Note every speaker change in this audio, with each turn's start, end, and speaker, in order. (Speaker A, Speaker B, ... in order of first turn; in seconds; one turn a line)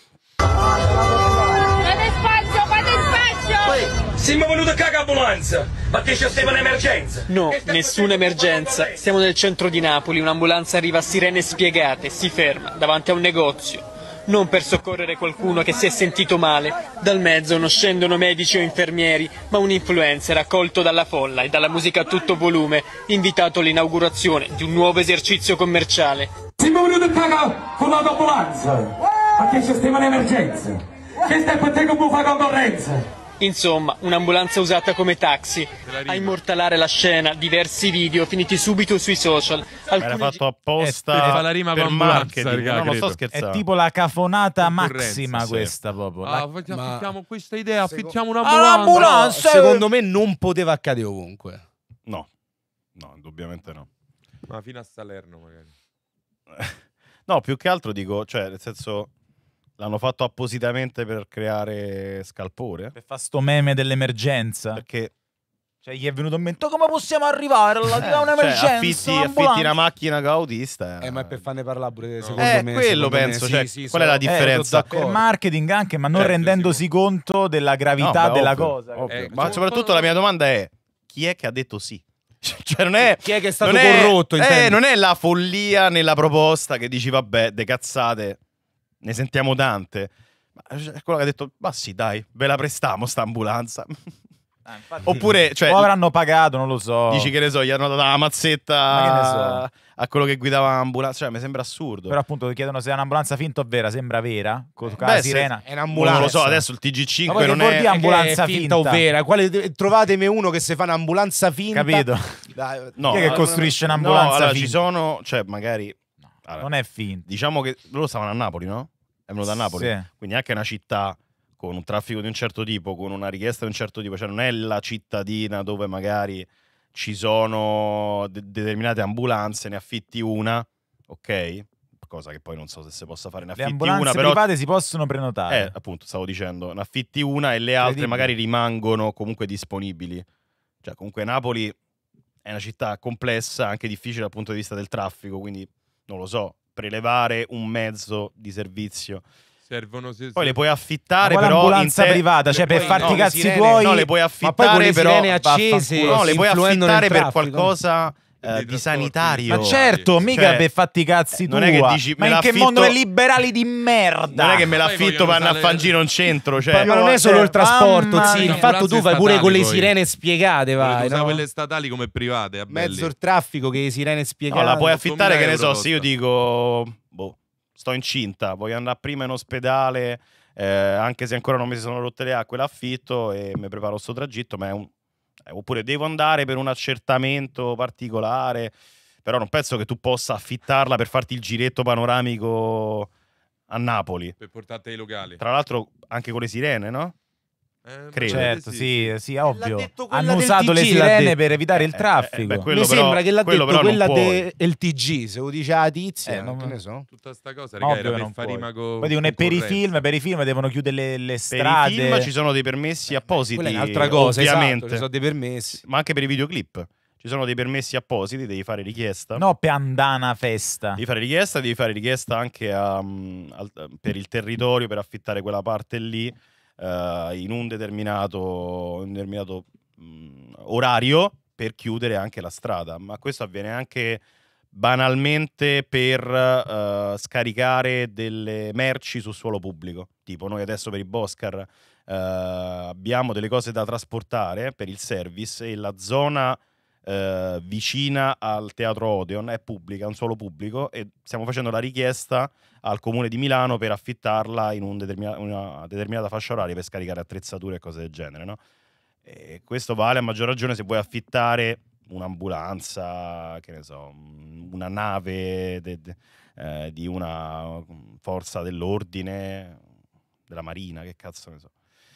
Speaker A: 3.5-9.0
Speaker B: 7.3-26.3
Speaker A: 26.6-33.1
Speaker B: 33.4-40.3
Speaker C: 35.9-36.4
Speaker D: 40.0-43.6
Speaker E: 40.8-41.4
Speaker C: 41.1-43.2
Speaker E: 43.3-46.5
Speaker C: 44.6-45.4
Speaker D: 45.4-45.7
Speaker C: 46.2-49.1
Speaker F: 46.7-47.1
Speaker F: 47.8-48.2
Speaker E: 48.4-49.9
Speaker F: 48.9-51.6
Speaker D: 53.0-53.9
Speaker C: 54.5-55.7
Speaker D: 56.5-59.1
Speaker D: 59.8-63.0
Speaker E: 63.0-64.8
Speaker D: 64.8-65.1
Speaker E: 65.8-69.8
Speaker D: 68.0-71.5
Speaker F: 71.0-75.2
Speaker C: 72.2-72.6
Speaker D: 72.4-74.9
Speaker E: 74.2-79.3
Speaker C: 76.2-76.8
Speaker D: 78.0-88.4
Speaker F: 79.1-79.6
Speaker C: 79.1-80.1
Speaker F: 83.2-84.8
Speaker D: 89.0-94.0
Speaker E: 94.7-97.3
Speaker D: 95.1-95.9
Speaker D: 97.1-102.2
Speaker E: 98.9-99.6
Speaker E: 102.1-106.6
Speaker D: 105.0-107.9
Speaker F: 105.6-106.3
Speaker E: 107.3-109.0
Speaker F: 107.3-114.0
Speaker E: 111.7-112.4
Speaker D: 113.0-116.7
Speaker E: 113.1-114.8
Speaker E: 116.6-117.3
Speaker D: 117.2-134.4
Speaker E: 119.5-120.1
Speaker E: 133.6-135.7
Speaker D: 135.5-140.3
Speaker E: 137.8-138.3
Speaker D: 140.8-141.8
Speaker D: 142.4-149.2
Speaker C: 149.7-150.6
Speaker D: 150.4-152.2
Speaker E: 151.2-154.1
Speaker F: 152.5-153.9
Speaker C: 152.7-153.1
Speaker D: 153.0-155.3
Speaker F: 154.4-157.7
Speaker E: 155.3-156.4
Speaker D: 156.0-160.7
Speaker C: 158.4-160.4
Speaker E: 159.5-164.7
Speaker D: 161.3-163.0
Speaker D: 164.3-166.9
Speaker C: 164.7-166.0
Speaker F: 166.7-171.4
Speaker E: 166.8-168.7
Speaker C: 168.2-169.9
Speaker C: 170.8-173.1
Speaker F: 172.7-175.0
Speaker D: 174.5-184.9
Speaker C: 174.8-176.1
Speaker D: 185.5-193.1
Speaker D: 193.7-194.3
Speaker C: 194.4-195.4
Speaker D: 195.4-197.2
Speaker C: 197.8-199.1
Speaker D: 198.1-198.6
Speaker E: 198.3-202.7
Speaker F: 199.5-201.4
Speaker D: 201.7-204.5
Speaker F: 202.7-207.1
Speaker E: 206.2-206.8
Speaker C: 207.1-209.9
Speaker E: 207.8-212.3
Speaker D: 211.5-215.1
Speaker F: 213.6-215.8
Speaker D: 215.8-219.4
Speaker E: 219.4-221.0
Speaker D: 221.0-258.6
Speaker D: 259.2-269.8
Speaker D: 270.5-271.7